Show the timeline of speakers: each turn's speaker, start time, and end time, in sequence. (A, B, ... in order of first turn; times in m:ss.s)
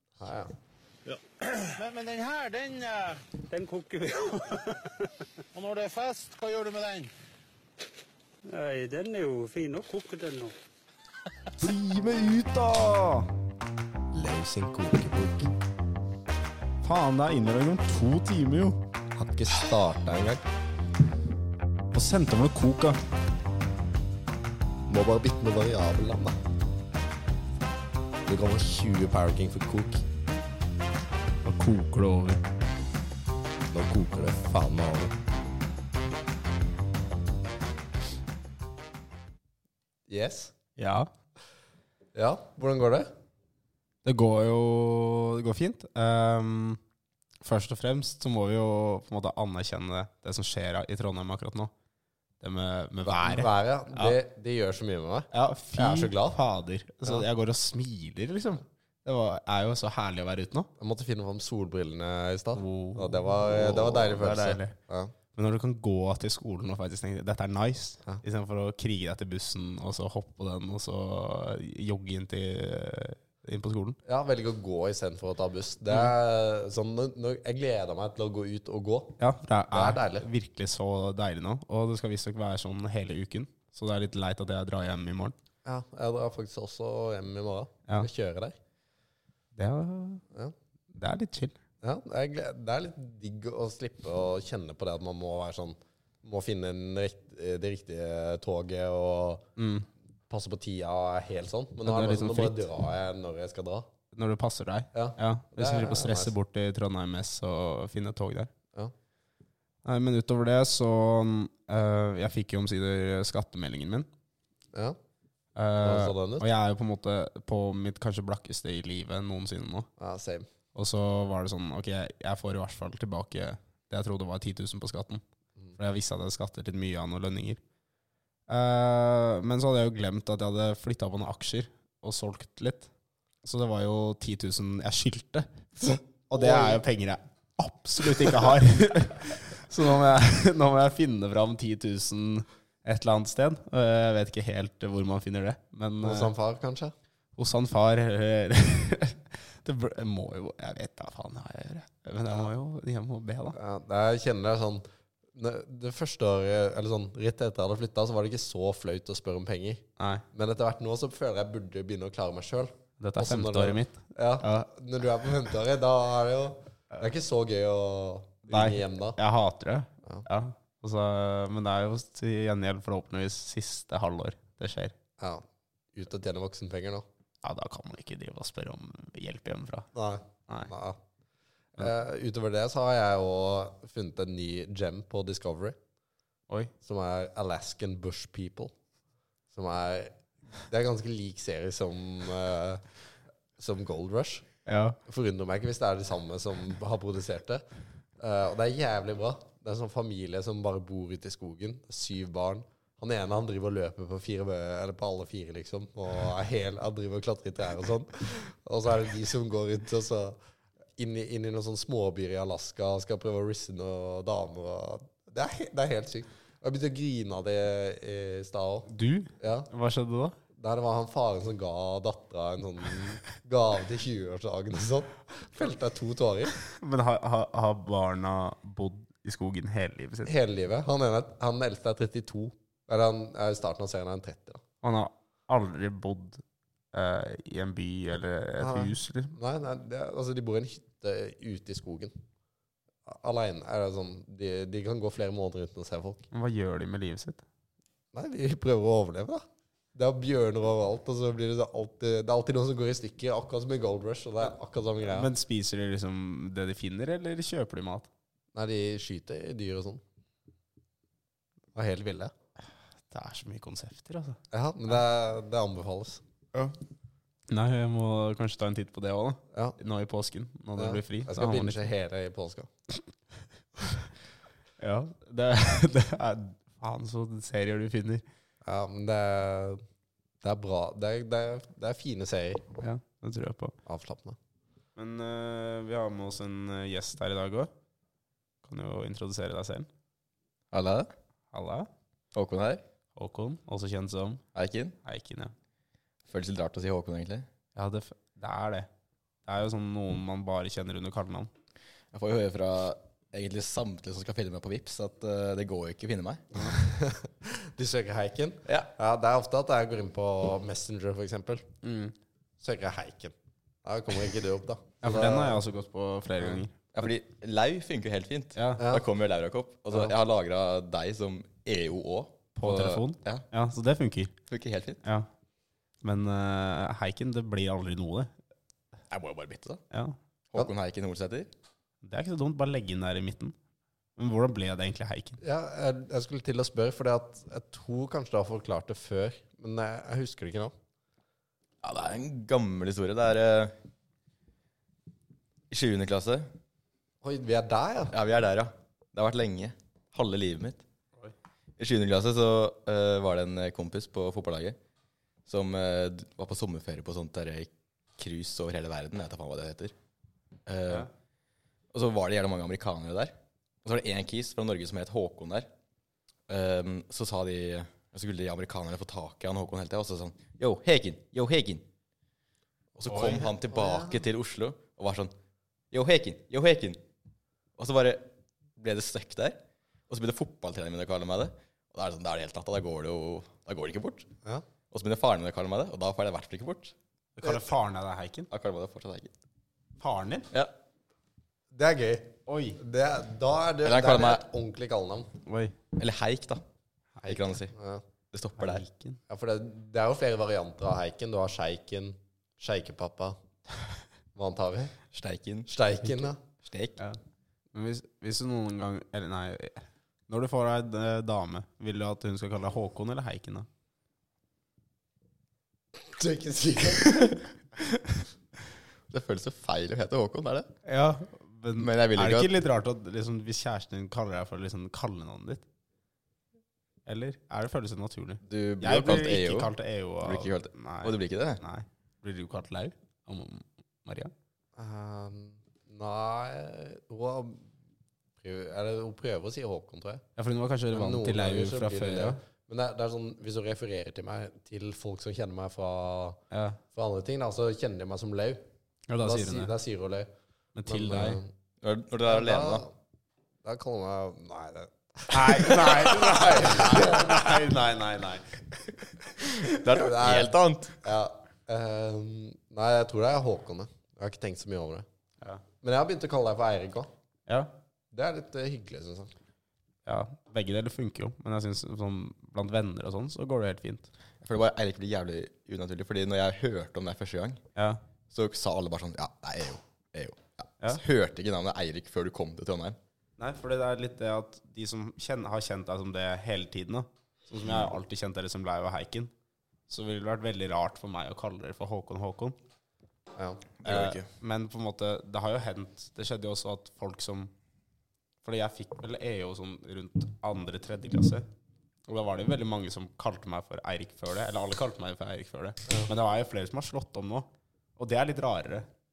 0:00.2-0:00.5 A
0:01.1-0:03.3 B
0:03.5-0:04.8 C
0:05.5-0:07.1 B
0:08.5-0:10.5 C
0:11.6-0:13.3 D
0:14.1-0:15.5 A
0:16.8-0:18.8 D
0:19.1-0:20.4 A
0:21.9-0:23.0 D
0:24.9-0:26.4 A
0:28.3-0:30.0 A
0:31.4-0:32.4 D
0:33.7-0:35.1 A
0:40.1-0:40.5 A
0:40.8-0:41.1 D
0:42.1-0:43.1 A
0:44.0-0:46.8 D
0:47.4-0:51.7 D
0:52.4-0:54.2 D
0:53.0-0:56.4 A
0:55.3-1:00.7 D
1:00.8-1:05.1 A
1:02.5-1:04.8 D
1:05.3-1:14.0 D
1:14.0-1:19.2 A
1:19.2-1:25.4 D
1:19.7-1:20.2 A
1:25.6-1:28.5 A
1:29.6-1:30.2 D
1:30.9-1:31.6 D
1:31.8-1:39.5 A
1:39.6-1:39.9 D
1:40.3-1:43.9 A
1:41.8-1:42.6 D
1:44.1-1:48.5 D
1:44.9-1:46.3 A
1:49.8-1:54.1 D
1:55.6-1:59.9 D
1:55.8-1:56.5 A
2:00.0-2:00.5 A
2:00.7-2:05.2 D
2:05.8-2:07.6 D
2:08.5-2:12.9 D
2:13.4-2:26.3 D
2:16.3-2:16.8 A
2:18.2-2:18.5 A
2:26.0-2:26.9 A
2:27.4-2:33.6 D
2:33.5-2:49.2 A
2:40.0-2:40.2 D
2:43.0-2:44.7 D
2:48.5-2:54.9 D
2:55.2-2:57.0 A
2:57.4-2:59.9 D
2:59.9-3:01.0 A
3:01.8-3:05.8 A
3:06.8-3:08.7 A
3:09.5-3:12.8 A
3:13.6-3:14.4 A
3:14.6-3:15.0 D
3:15.0-3:17.6 A
3:18.2-3:30.4 A
3:31.0-3:38.9 A
3:38.9-3:40.4 D
3:39.4-3:39.7 A
3:40.5-3:46.6 A
3:46.6-3:50.3 D
3:50.2-3:54.6 A
3:54.8-3:59.4 D
3:58.6-4:02.1 A
4:03.0-4:06.3 A
4:06.3-4:07.4 D
4:08.1-4:09.4 A
4:09.9-4:15.3 A
4:15.0-4:18.1 D
4:18.5-4:20.0 A
4:21.7-4:22.3 A
4:23.1-4:24.4 D
4:24.5-4:26.2 A
4:27.5-4:31.8 D
4:30.8-4:32.7 A
4:34.8-4:38.2 D
4:38.6-4:39.8 A
4:40.4-4:42.7 A
4:42.8-4:43.7 D
4:43.8-4:44.4 A
4:45.0-4:47.7 D
4:48.6-4:49.9 D
4:50.7-4:51.1 E
4:51.5-4:51.9 D
4:52.3-4:52.8 E
4:53.2-4:54.4 D
4:54.5-4:55.0 E
4:55.0-4:55.5 D
4:56.3-4:57.5 E
4:57.8-4:58.9 D
4:59.4-5:01.5 D
5:02.1-5:06.7 E
5:06.6-5:11.7 A
5:08.6-5:08.9 E
5:11.8-5:12.1 D
5:12.6-5:13.3 A
5:13.8-5:15.6 A
5:15.0-5:16.8 D
5:16.9-5:23.4 E
5:18.6-5:18.8 D
5:18.8-5:19.0 A
5:22.6-5:24.3 D
5:24.5-5:25.0 E
5:25.0-5:25.3 D
5:26.0-5:28.3 D
5:29.1-5:29.8 E
5:29.9-5:30.2 D
5:30.5-5:31.5 E
5:32.0-5:33.6 D
5:34.2-5:35.4 D
5:35.4-5:40.7 A
5:41.8-5:43.7 E
5:45.7-5:46.5 E
5:47.2-5:48.1 A
5:48.1-5:50.8 E
5:51.8-5:54.8 E
5:55.5-5:59.9 E
6:00.6-6:01.1 E
6:01.9-6:05.7 E
6:06.5-6:11.9 E
6:13.0-6:15.3 E
6:13.1-6:13.5 D
6:13.2-6:14.2 A
6:15.9-6:17.0 E
6:17.8-6:24.3 E
6:24.9-6:26.9 E
6:27.4-6:28.5 D
6:28.5-6:29.3 E
6:30.0-6:30.5 D
6:31.7-6:35.3 A
6:32.5-6:32.8 D
6:33.8-6:34.4 E
6:35.4-6:35.8 D
6:36.0-6:36.6 E
6:37.2-6:38.0 A
6:37.2-6:37.7 E
6:38.3-6:38.8 E
6:38.6-6:39.2 D
6:39.3-6:43.4 A
6:44.3-6:45.0 A
6:45.1-6:45.7 E
6:45.7-6:46.4 A
6:46.6-6:47.0 E
6:47.7-6:53.7 D
6:56.0-6:57.3 A
6:59.1-7:00.7 E
7:00.8-7:05.6 D
7:01.8-7:02.6 E
7:07.0-7:14.3 D
7:08.4-7:11.6 E
7:14.8-7:17.7 A
7:18.4-7:20.2 A
7:20.4-7:22.4 D
7:20.9-7:26.4 A
7:26.5-7:26.8 D
7:26.9-7:28.6 A
7:29.1-7:29.7 D
7:29.2-7:30.3 A
7:30.7-7:31.4 D
7:30.8-7:31.5 A
7:31.8-7:32.9 E
7:32.2-7:32.9 A
7:33.6-7:37.7 A
7:35.3-7:39.0 D
7:39.7-7:41.0 E
7:39.8-7:45.0 A
7:45.8-7:47.1 A
7:47.5-7:47.7 D
7:48.1-7:49.3 A
7:50.0-7:54.1 D
7:54.4-7:57.6 E
7:57.7-7:58.0 D
7:58.3-8:03.0 E
8:03.4-8:09.3 D
8:07.6-8:07.9 E
8:09.9-8:12.6 D
8:13.4-8:13.6 A
8:13.8-8:14.3 E
8:13.8-8:17.5 D
8:18.4-8:21.5 D
8:22.1-8:28.9 D